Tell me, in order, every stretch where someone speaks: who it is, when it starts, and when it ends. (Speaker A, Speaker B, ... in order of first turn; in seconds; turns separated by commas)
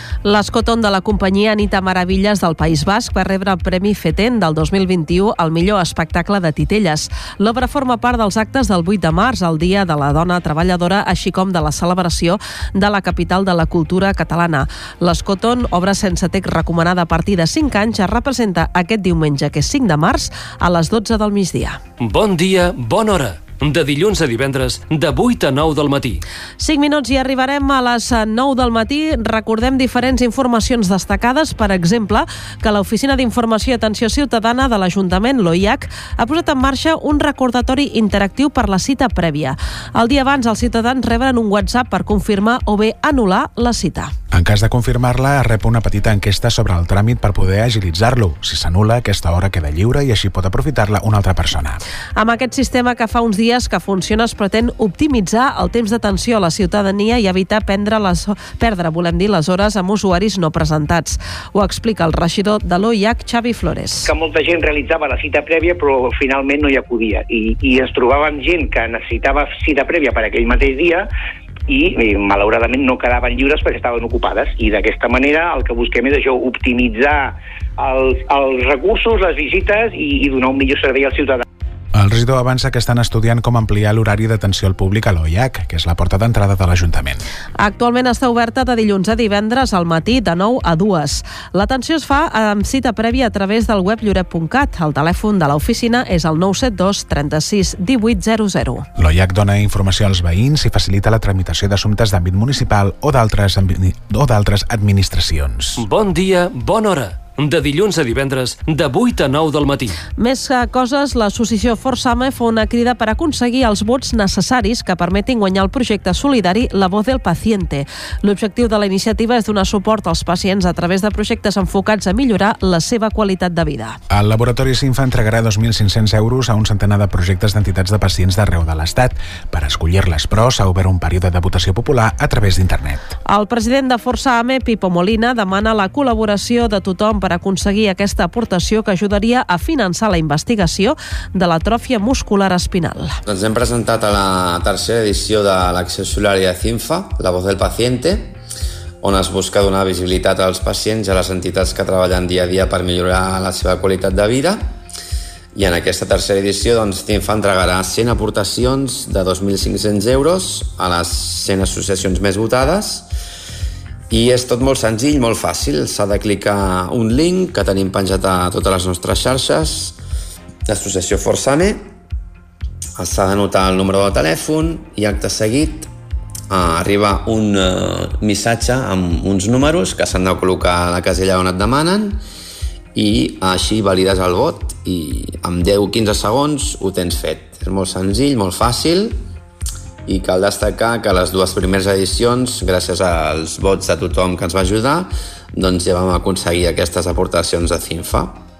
Speaker A: 0.2-21.8, Speaker B: 22.0-26.2, Speaker A: 26.6-44.1, Speaker C: 44.3-51.8, Speaker A: 52.2-64.1, Speaker D: 64.0-71.1, Speaker D: 71.7-81.4, Speaker C: 82.0-87.2, Speaker A: 87.6-98.9, Speaker C: 99.0-105.8, Speaker B: 105.8-110.0, Speaker A: 110.2-124.0, Speaker C: 124.1-133.1, Speaker A: 133.3-143.2, Speaker E: 143.2-148.4, Speaker E: 149.0-154.8, Speaker E: 155.5-163.1, Speaker E: 164.1-170.0, Speaker E: 170.7-171.9, Speaker E: 173.0-175.9, Speaker E: 176.5-182.2, Speaker E: 182.9-189.3, Speaker E: 190.1-198.4